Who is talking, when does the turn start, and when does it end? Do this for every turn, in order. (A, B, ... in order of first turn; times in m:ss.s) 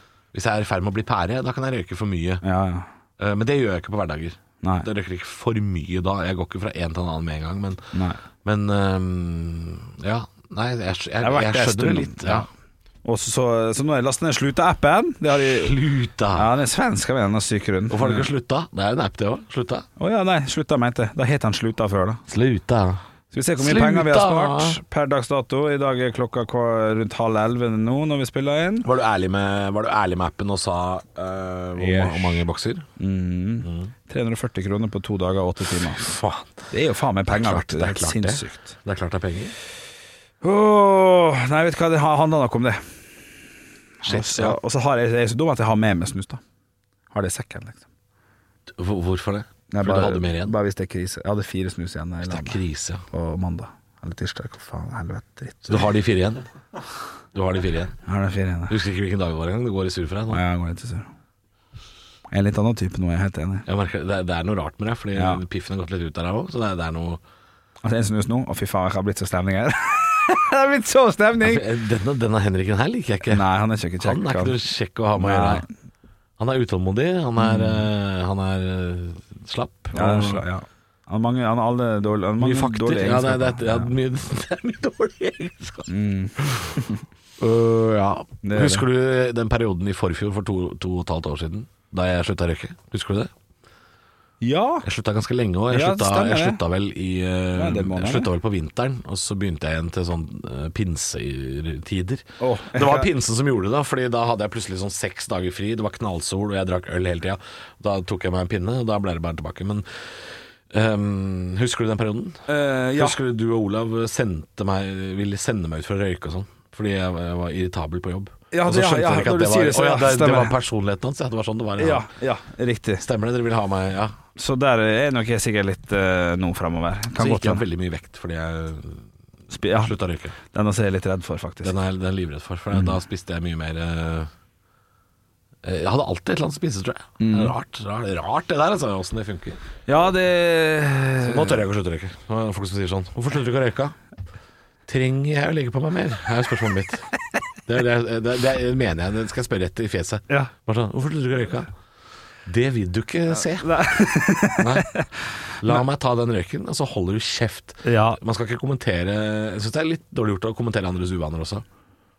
0:00.3-0:02.4 A
0:02.4-0:02.9 B
0:03.2-0:07.8 A
0:04.6-0:04.9 B
0:07.9-0:08.2 B
0:08.4-0:12.5 A
0:11.2-0:12.4 B
0:13.0-0:15.8 B
0:15.3-0:16.5 A
0:16.3-0:18.3 B
0:17.9-0:19.9 A
0:20.0-0:22.2 B
0:22.3-0:23.0 A
0:23.3-0:28.9 B
0:23.6-0:24.8 A
0:28.8-0:32.8 A
0:31.8-0:32.4 B
0:33.0-0:36.1 B
0:33.6-0:33.9 A
0:35.8-0:36.5 A
0:36.7-0:38.8 B
0:37.3-0:39.5 A
0:40.4-0:42.8 B
0:44.0-0:46.4 B
0:44.0-0:44.6 A
0:47.1-0:47.8 B
0:48.7-0:50.5 A
0:49.7-0:55.9 B
0:52.2-0:53.0 A
0:55.7-0:56.4 A
0:57.3-0:58.0 A
0:58.0-0:58.8 B
0:58.7-1:00.4 A
1:00.3-1:01.1 B
1:02.3-1:03.6 B
1:03.6-1:07.2 A
1:05.1-1:05.4 B
1:07.8-1:11.7 B
1:11.4-1:13.4 A
1:13.3-1:14.5 B
1:14.0-1:15.6 A
1:15.2-1:15.7 B
1:16.4-1:20.4 A
1:17.4-1:17.8 B
1:19.9-1:23.9 B
1:22.4-1:26.8 A
1:25.9-1:27.0 B
1:27.4-1:33.3 A
1:28.4-1:28.8 B
1:34.4-1:34.8 B
1:34.8-1:49.8 A
1:35.7-1:36.6 B
1:37.5-1:38.3 B
1:42.4-1:43.1 B
1:50.7-2:02.1 A
1:52.5-1:53.2 B
1:58.5-2:00.5 B
2:01.8-2:03.0 B
2:03.0-2:04.2 A
2:04.4-2:07.6 B
2:07.2-2:09.0 A
2:09.5-2:09.9 B
2:09.7-2:10.4 A
2:10.5-2:11.7 B
2:11.6-2:14.3 A
2:15.6-2:19.6 A
2:17.2-2:17.5 B
2:19.9-2:21.6 B
2:21.2-2:24.0 A
2:24.9-2:27.1 A
2:27.6-2:31.7 A
2:32.4-2:33.7 A
2:33.4-2:35.8 B
2:34.6-2:35.0 A
2:35.6-2:41.6 A
2:37.8-2:38.2 B